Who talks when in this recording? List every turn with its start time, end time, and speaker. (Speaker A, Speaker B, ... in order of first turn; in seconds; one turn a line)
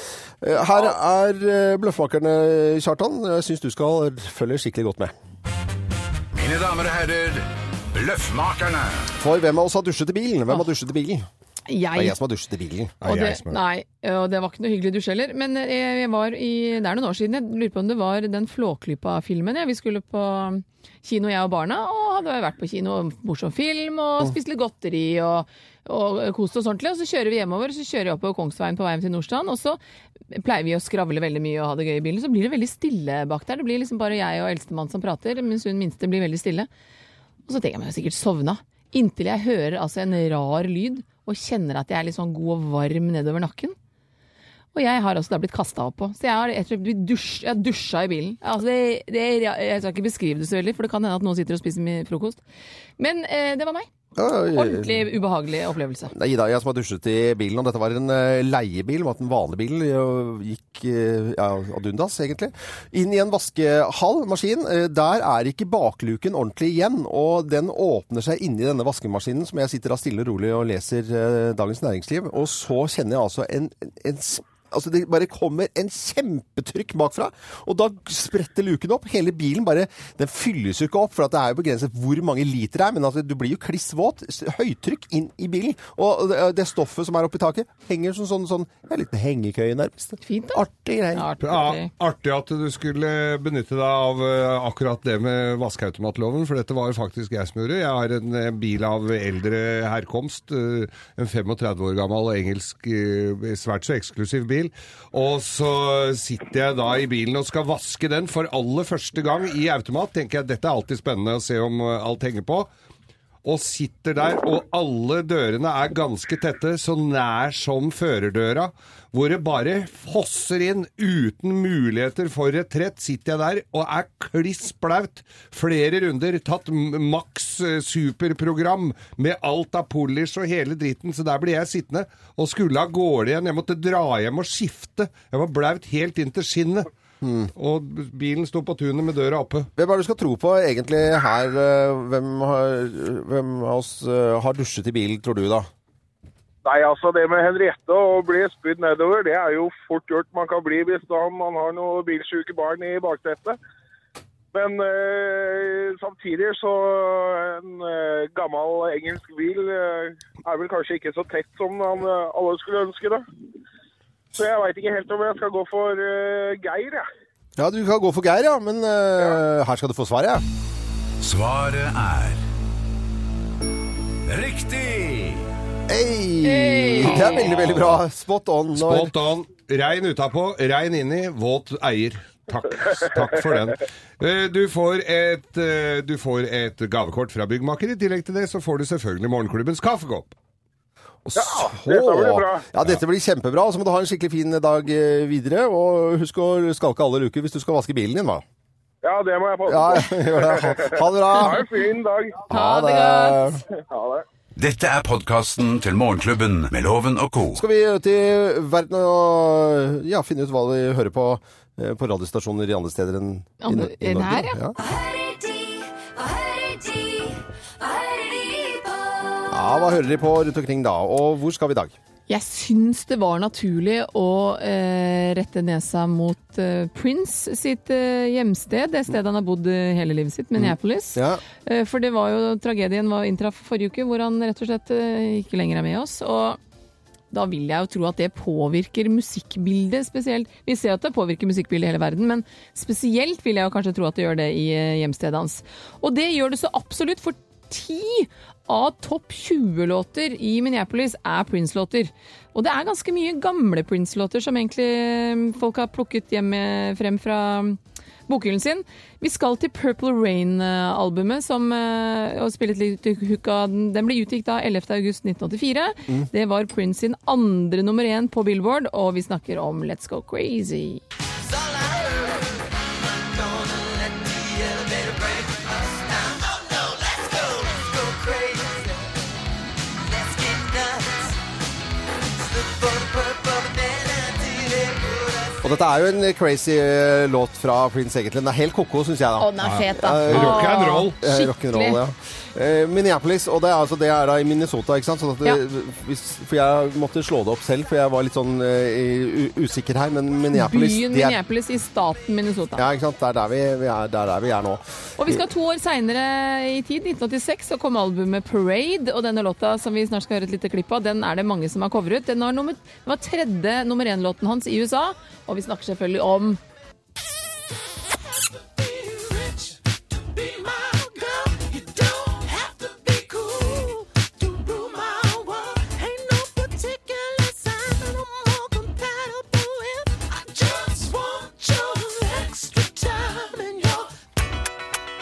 Speaker A: 0.4-5.1
Speaker B: 6.3-9.1
Speaker A: 9.2-11.2
Speaker C: 11.7-12.2
Speaker A: 11.9-13.0
Speaker D: 13.0-13.6
Speaker C: 13.0-29.8
Speaker C: 30.3-36.7
Speaker C: 37.5-43.8
Speaker C: 44.7-52.4
Speaker C: 53.0-53.9
Speaker A: 54.1-55.1
Speaker C: 54.5-56.1
Speaker A: 56.1-91.3
Speaker C: 90.2-90.6
Speaker C: 91.1-91.9
Speaker D: 91.4-112.7
Speaker D: 113.4-136.9
Speaker A: 137.2-137.5
Speaker D: 137.6-139.7
Speaker A: 139.8-145.7
Speaker E: 146.6-153.6
Speaker E: 154.5-163.2
Speaker E: 164.3-167.1
Speaker A: 167.6-170.4
Speaker B: 171.2-172.4
Speaker B: 174.2-175.4
Speaker A: 175.9-179.1
Speaker C: 176.4-177.5
Speaker D: 177.3-178.0
Speaker D: 178.7-190.3
Speaker A: 191.2-198.4
Speaker E: 191.3-192.6
Speaker E: 199.0-202.4
Speaker A: 199.7-201.7
Speaker A: 202.5-203.6
Speaker C: 202.5-203.4
Speaker E: 203.7-204.2
Speaker B: 204.6-207.6
Speaker A: 207.5-214.8
Speaker C: 213.6-214.6
Speaker F: 214.7-219.7
Speaker A: 219.5-221.9
Speaker C: 222.3-236.6
Speaker A: 230.6-231.4
Speaker C: 237.3-271.0
Speaker A: 285.6-301.4
Speaker C: 289.4-292.0
Speaker D: 289.6-291.1
Speaker C: 300.5-302.8
Speaker A: 302.8-305.4
Speaker C: 305.2-316.6
Speaker F: 318.7-334.1